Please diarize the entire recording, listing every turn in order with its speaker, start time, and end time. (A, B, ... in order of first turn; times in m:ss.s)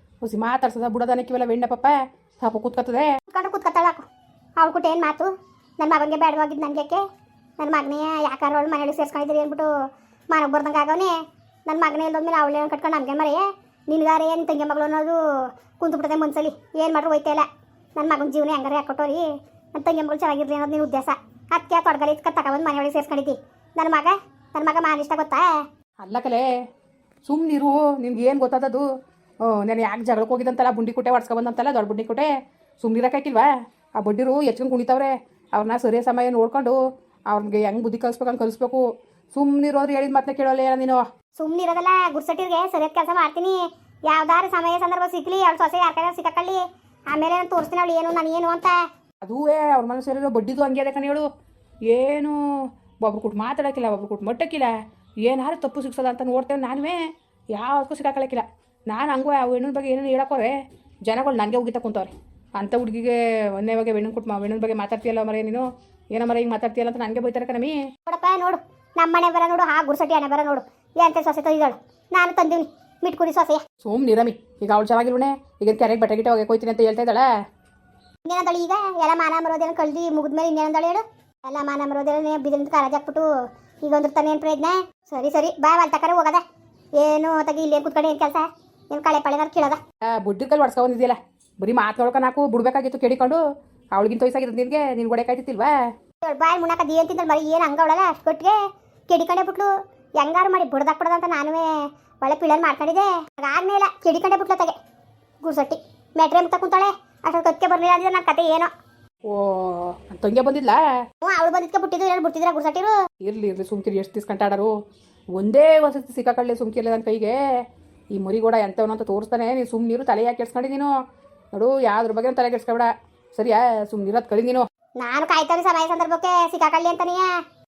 0:00.2-0:03.1 A
0:03.3-0:04.0 B
0:04.6-0:07.0 B
0:07.6-0:09.7 B
0:10.3-0:11.1 B
0:11.7-0:25.5 B
0:26.0-0:26.5 A
0:27.2-0:28.8 A
0:29.4-0:36.8 A
0:37.3-0:41.0 A
0:41.4-0:48.8 B
0:49.2-0:51.2 A
0:51.9-0:52.4 A
0:53.0-1:00.5 A
1:01.1-1:07.8 A
1:08.1-1:13.6 B
1:13.8-1:17.2 A
1:18.2-1:23.2 B
1:23.8-1:26.4 B
1:27.0-1:29.8 B
1:30.1-1:33.4 A
1:33.9-1:35.7 A
1:36.2-1:38.6 B
1:39.1-1:41.7 B
1:42.2-1:44.7 B
1:45.4-1:48.7 B
1:49.3-1:50.8 A
1:51.2-1:52.9 B
1:53.2-1:54.7 A
1:55.4-1:57.4 A
1:58.1-2:00.9 A
2:01.5-2:04.6 A
2:05.0-2:07.3 B